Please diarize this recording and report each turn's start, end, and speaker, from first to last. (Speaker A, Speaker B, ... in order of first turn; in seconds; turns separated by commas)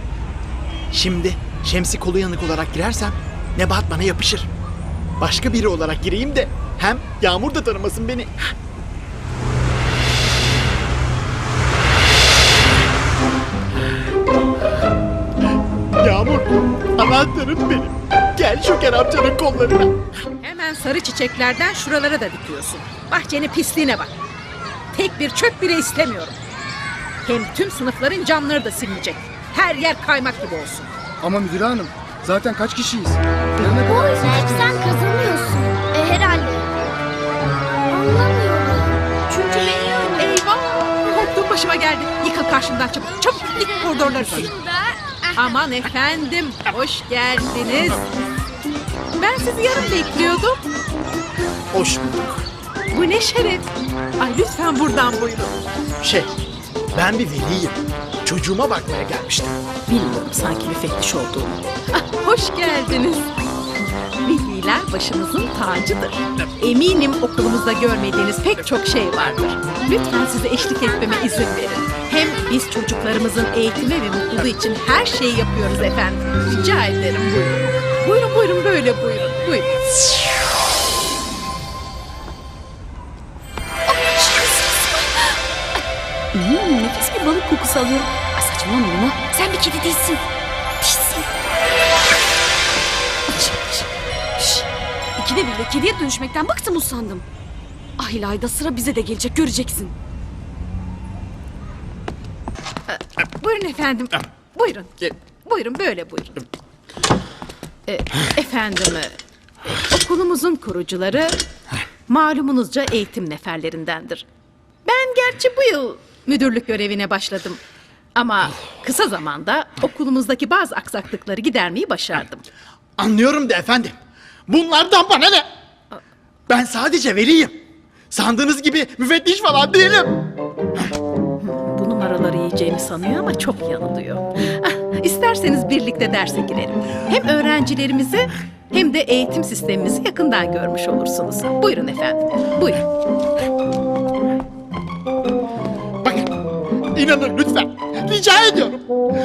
Speaker A: 0.9-4.5, Speaker A: 5.2-8.5, Speaker A: 16.0-20.0, Speaker B: 20.4-24.1, Speaker B: 24.9-26.4, Speaker B: 27.2-30.9, Speaker C: 31.2-33.9, Speaker D: 33.9-36.7, Speaker D: 37.9-38.9, Speaker B: 40.0-48.0, Speaker B: 49.1-50.6, Speaker A: 51.7-52.5, Speaker B: 52.9-55.6, Speaker A: 56.0-56.3, Speaker A: 56.9-59.5, Speaker B: 59.9-63.3, Speaker B: 64.2-79.7, Speaker E: 83.9-85.2, Speaker E: 86.3-90.2, Speaker E: 90.8-91.2, Speaker E: 93.3-93.8, Speaker E: 94.4-94.7, Speaker E: 95.2-97.2, Speaker E: 98.0-99.9, Speaker B: 102.9-106.4, Speaker B: 107.9-109.2, Speaker B: 109.9-111.4, Speaker B: 112.1-114.2, Speaker B: 114.8-117.6, Speaker B: 118.2-122.5, Speaker A: 123.0-125.5, Speaker A: 126.5-127.5, Speaker A: 128.1-130.2, Speaker B: 131.4-142.8, Speaker A: 146.0-146.3, Speaker A: 146.9-148.8